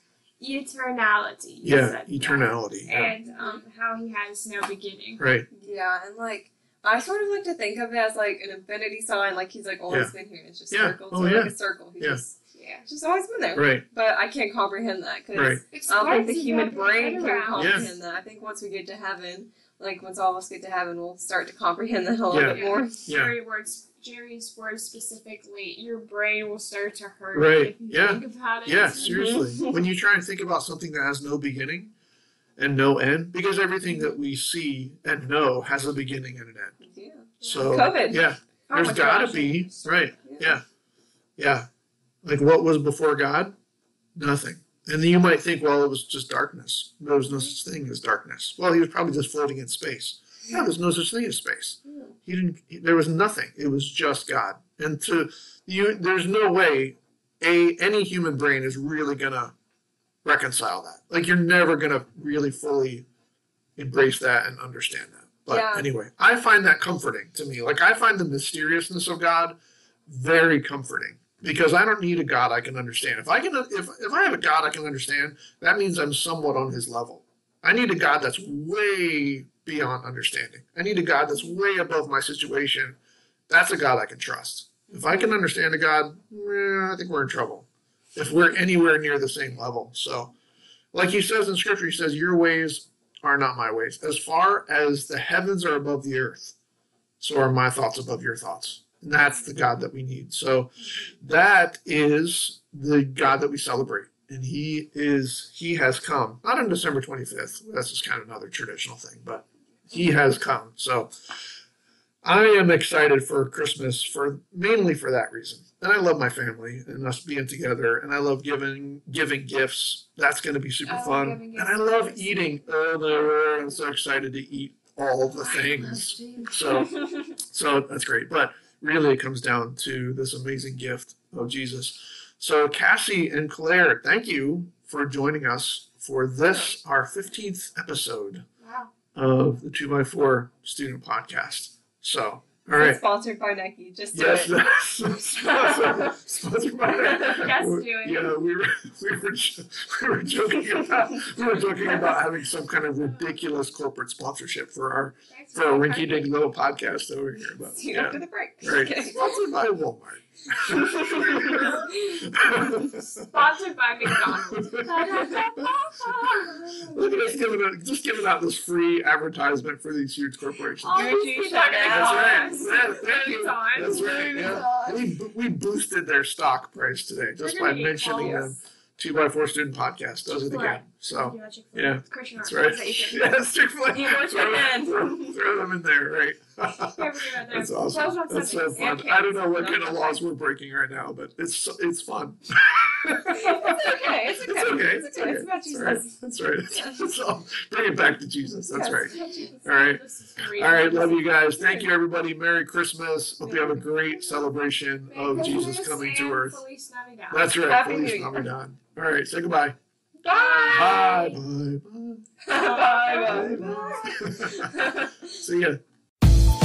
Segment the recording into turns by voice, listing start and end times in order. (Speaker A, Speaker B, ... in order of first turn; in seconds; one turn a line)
Speaker A: 0.4-5.2
Speaker B: 1.6-3.1
Speaker C: 3.3-3.6
Speaker B: 5.2-5.5
Speaker C: 5.5-23.0
Speaker B: 10.7-12.2
Speaker A: 12.5-12.8
Speaker B: 13.5-13.8
Speaker B: 15.3-15.6
Speaker A: 15.7-17.9
Speaker B: 17.6-17.9
Speaker B: 22.3-23.3
Speaker A: 22.4-29.5
Speaker B: 27.3-31.9
Speaker C: 29.0-29.8
Speaker B: 32.6-36.8
Speaker C: 36.8-38.2
Speaker A: 37.4-37.9
Speaker B: 37.4-40.6
Speaker A: 38.7-40.3
Speaker C: 40.2-40.6
Speaker B: 41.4-41.7
Speaker B: 42.2-43.5
Speaker B: 44.1-59.5
Speaker B: 60.2-63.0
Speaker B: 63.8-83.0
Speaker C: 65.5-65.9
Speaker B: 83.5-90.3
Speaker B: 90.9-96.5
Speaker B: 97.2-111.1
Speaker B: 112.2-138.4
Speaker A: 120.8-122.6
Speaker A: 125.4-126.8
Speaker A: 138.6-138.9
Speaker B: 139.1-143.0
Speaker C: 142.8-144.6
Speaker B: 144.1-163.4
Speaker C: 145.3-146.1
Speaker A: 146.8-148.3
Speaker C: 151.7-152.1
Speaker A: 155.3-156.3
Speaker C: 157.7-159.2
Speaker C: 160.7-161.9
Speaker A: 163.2-167.3
Speaker B: 164.0-171.0
Speaker A: 170.8-175.1
Speaker C: 170.8-172.7
Speaker B: 171.8-206.6
Speaker C: 174.1-174.8
Speaker A: 177.4-178.6
Speaker C: 178.2-178.5
Speaker A: 180.5-183.3
Speaker C: 183.9-185.4
Speaker A: 186.8-189.0
Speaker C: 188.7-190.2
Speaker C: 193.2-196.1
Speaker C: 196.7-197.0
Speaker C: 198.7-199.3
Speaker A: 199.1-201.2
Speaker C: 201.5-201.9
Speaker A: 203.5-203.7
Speaker A: 205.1-207.6
Speaker B: 207.3-209.8
Speaker C: 207.6-208.5
Speaker A: 210.2-211.4
Speaker C: 210.2-211.2
Speaker B: 210.7-212.3
Speaker C: 212.4-215.1
Speaker A: 212.5-214.2
Speaker B: 213.1-215.8